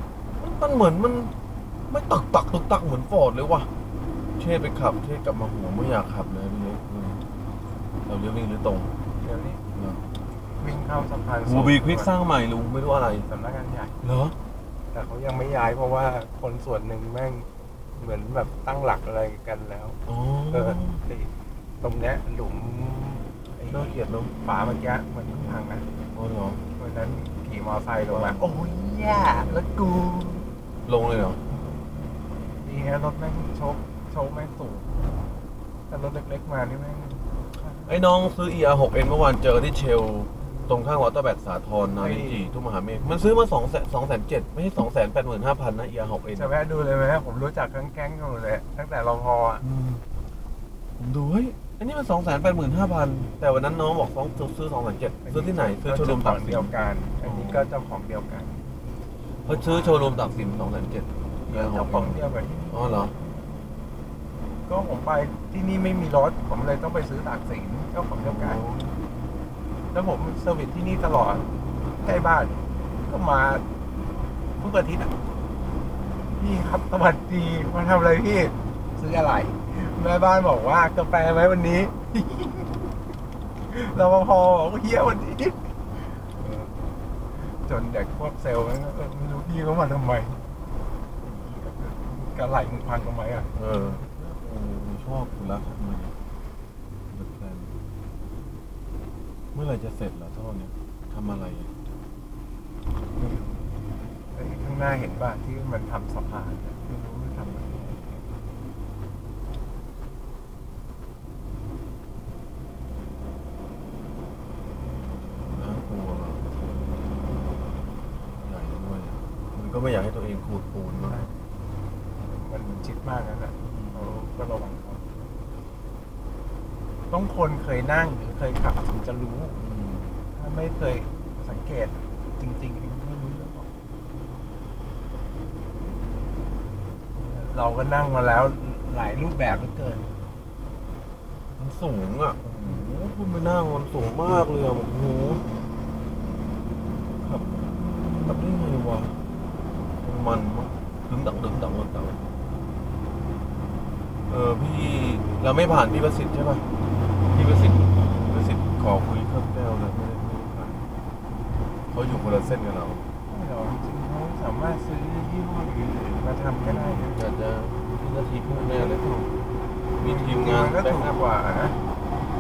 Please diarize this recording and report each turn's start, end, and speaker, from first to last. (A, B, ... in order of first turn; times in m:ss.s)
0:00.4-0:01.3 A
0:01.9-0:03.7 A
0:04.4-0:07.2 A
0:08.1-0:08.9 A
0:09.2-0:09.6 B
0:09.8-0:10.0 A
0:10.6-0:12.1 B
0:11.5-0:13.3 A
0:13.2-0:14.0 B
0:14.0-0:14.4 A
0:14.9-0:20.0 B
0:20.1-0:21.0 A
0:20.5-0:25.9 B
0:23.7-0:24.3 A
0:26.1-0:26.6 A
0:26.8-0:30.5 B
0:28.0-0:28.5 A
0:30.9-0:31.4 A
0:32.6-0:35.0 B
0:35.9-0:38.0 B
0:37.9-0:46.5 A
0:40.4-0:40.8 B
0:42.0-0:42.5 B
0:46.4-0:49.6 B
0:49.6-0:50.0 A
0:51.0-0:56.7 A
0:55.2-0:58.6 B
0:57.2-0:57.7 A
0:59.4-1:03.1 A
0:59.4-1:00.3 B
1:01.5-1:03.4 B
1:04.7-1:08.6 B
1:08.2-1:09.0 A
1:09.9-1:11.5 B
1:12.0-1:13.6 B
1:14.6-1:15.2 B
1:16.3-1:23.0 B
1:23.7-1:30.4 B
1:31.2-1:34.4 B
1:33.6-1:36.1 A
1:37.1-1:37.8 A
1:39.5-1:41.7 A
1:43.1-1:43.6 B
1:44.3-1:48.3 B
1:55.5-1:56.5 A
1:58.4-2:01.2 A
2:00.9-2:01.5 B
2:02.2-2:05.4 B
2:03.6-2:04.3 A
2:07.1-2:09.6 B
2:09.6-2:10.2 A
2:10.4-2:13.7 B
2:17.2-2:20.1 B
2:21.6-2:25.5 A
2:22.5-2:22.8 B
2:27.2-2:27.7 A
2:28.2-2:29.2 A
2:30.0-2:32.2 A
2:34.3-2:36.7 A
2:37.3-2:40.8 A
2:41.9-2:43.1 A
2:43.3-2:47.2 B
2:46.6-2:49.3 A
2:48.5-2:49.0 B
2:50.0-2:51.2 A
2:50.0-2:51.8 B